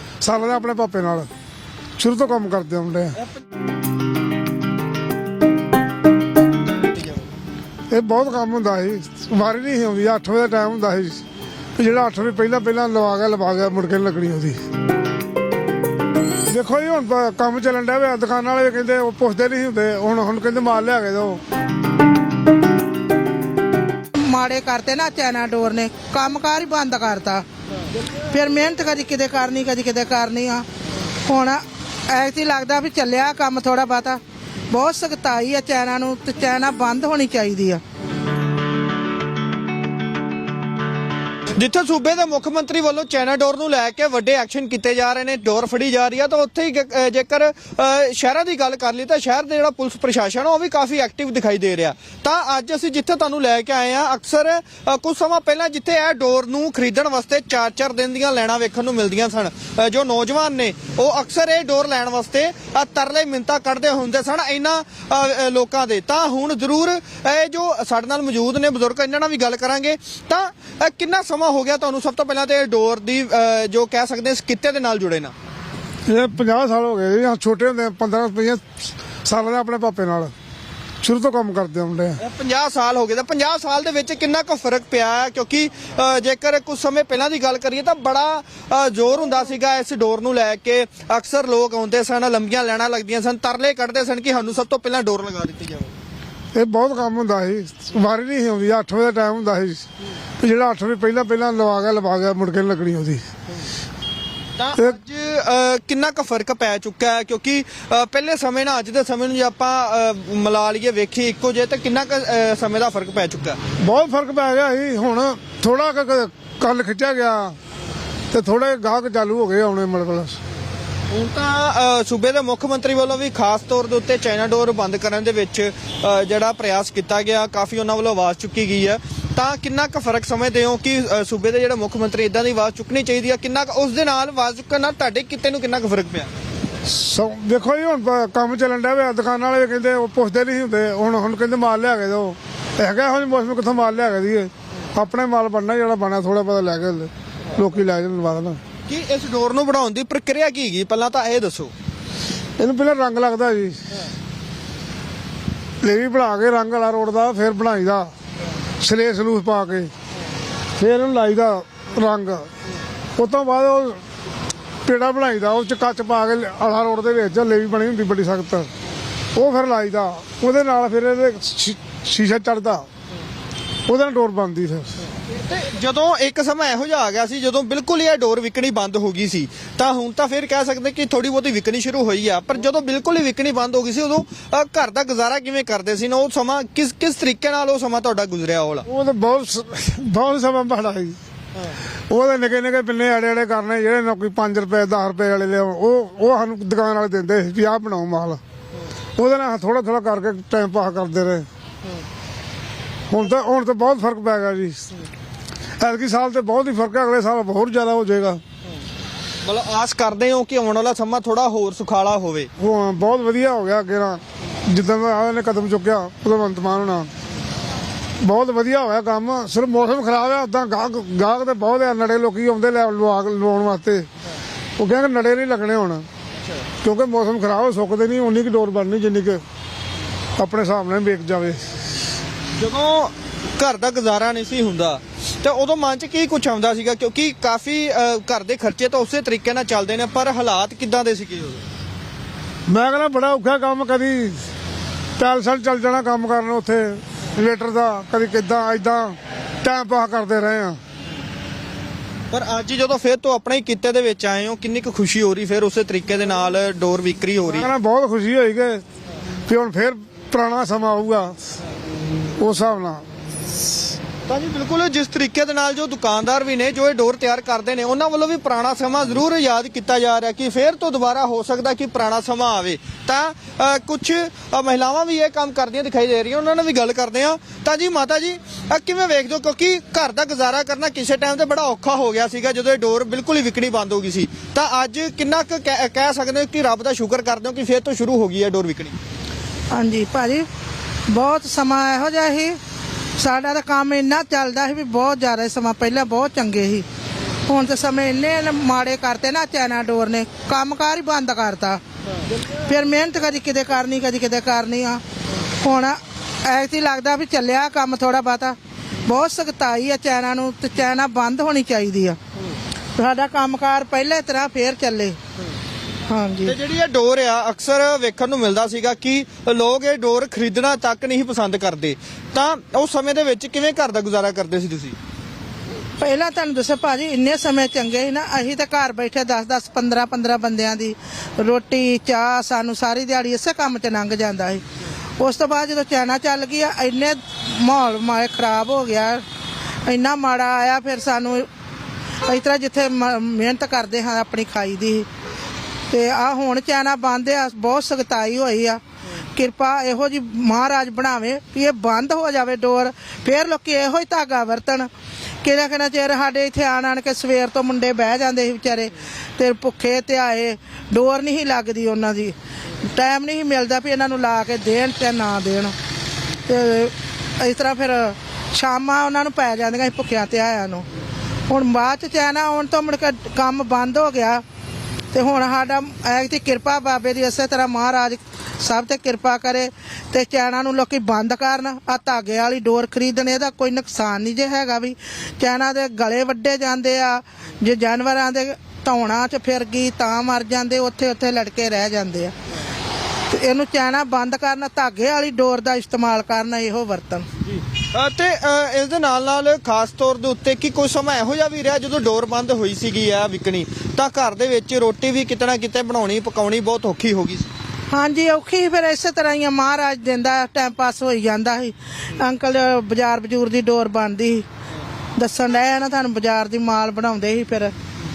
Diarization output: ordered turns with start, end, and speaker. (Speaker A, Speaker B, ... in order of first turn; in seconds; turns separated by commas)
Speaker A: 0.2-1.3, Speaker A: 2.0-3.2, Speaker A: 7.9-11.2, Speaker A: 11.8-14.6, Speaker A: 16.5-21.4, Speaker B: 24.1-27.4, Speaker B: 28.3-30.6, Speaker B: 31.2-37.8, Speaker C: 41.5-75.3, Speaker A: 76.1-80.3, Speaker A: 81.0-82.2, Speaker C: 82.2-95.9, Speaker A: 96.5-99.8, Speaker A: 100.4-103.2, Speaker C: 104.6-113.6, Speaker A: 113.8-117.6, Speaker A: 118.3-120.4, Speaker C: 121.1-136.3, Speaker A: 136.8-148.6, Speaker C: 148.9-151.7, Speaker A: 152.6-153.8, Speaker A: 155.8-158.1, Speaker A: 158.8-159.9, Speaker A: 160.8-162.5, Speaker A: 163.2-164.0, Speaker A: 164.8-168.7, Speaker A: 169.3-172.9, Speaker A: 173.9-175.0, Speaker C: 175.3-188.8, Speaker A: 188.8-191.2, Speaker A: 192.1-198.4, Speaker A: 199.2-201.5, Speaker A: 203.1-204.9, Speaker A: 205.8-208.4, Speaker C: 209.4-212.5, Speaker A: 212.6-217.1, Speaker A: 218.2-224.1, Speaker A: 224.8-226.1, Speaker A: 226.8-229.4, Speaker A: 230.4-231.6, Speaker C: 232.6-241.6, Speaker A: 242.7-244.4, Speaker A: 245.2-250.8, Speaker C: 252.3-257.7, Speaker A: 257.5-258.8, Speaker A: 259.5-261.4, Speaker A: 262.4-263.0, Speaker C: 264.3-288.9, Speaker B: 289.7-290.5, Speaker B: 291.1-292.6, Speaker B: 293.2-296.9, Speaker B: 297.4-301.8, Speaker B: 302.6-312.2, Speaker B: 312.9-315.2, Speaker B: 316.1-316.5, Speaker C: 316.4-324.9, Speaker B: 326.0-334.6, Speaker B: 335.2-339.2, Speaker B: 339.8-341.5, Speaker B: 342.2-345.1, Speaker B: 345.9-348.8, Speaker B: 349.3-354.9, Speaker B: 355.4-365.7, Speaker B: 366.4-370.9, Speaker B: 371.5-374.4, Speaker B: 375.1-392.3, Speaker B: 393.3-397.3, Speaker C: 397.9-407.5, Speaker B: 407.9-414.4, Speaker B: 415.2-417.7